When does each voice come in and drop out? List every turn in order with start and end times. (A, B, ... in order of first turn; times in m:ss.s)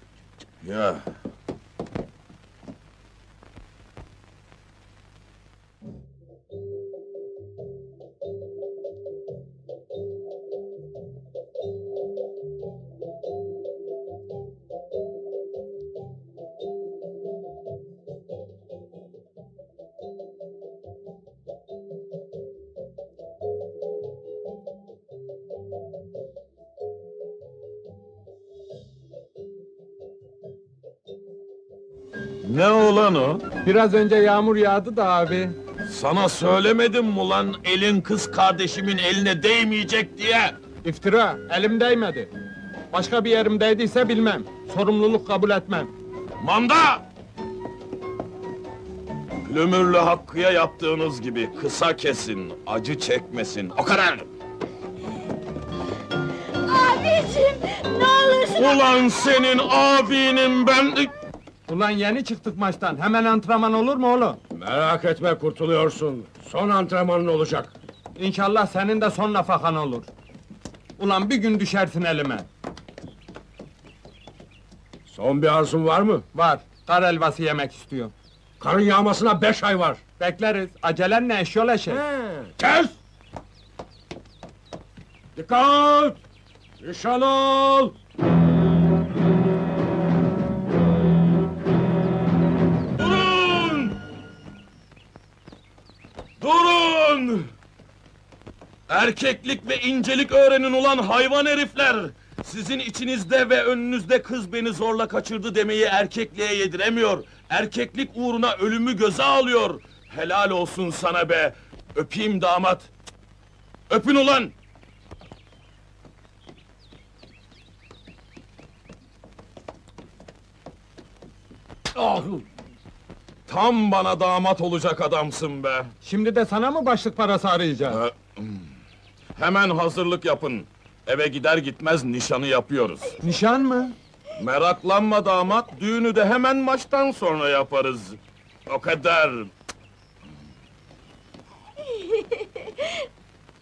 0:00.6-0:01.0 A
0:32.4-0:33.5 A
0:33.6-0:35.5 B
0:35.9-0:40.6 A
0:40.8-0:42.3 B
0:42.9-0:45.9 B
0:46.4-0:47.0 A
0:49.4-0:54.3 A
0:56.5-0:59.5 C
0:58.5-1:01.1 A
1:01.7-1:04.4 B
1:04.5-1:07.7 D
1:08.2-1:10.1 B
1:11.0-1:12.5 B
1:15.1-1:16.2 D
1:16.3-1:18.1 B
1:18.6-1:20.0 D
1:20.2-1:22.0 B
1:22.1-1:22.9 D
1:25.4-1:26.2 D
1:26.8-1:27.9 D
1:33.0-1:34.0 A
1:36.4-1:37.5 A
1:38.9-1:52.9 A
1:53.9-1:54.5 A
2:02.0-2:02.4 A
2:03.5-2:05.9 A
2:06.0-2:08.0 B
2:07.9-2:08.6 A
2:09.4-2:13.1 A
2:13.2-2:13.9 B
2:14.4-2:19.5 A
2:21.8-2:23.0 C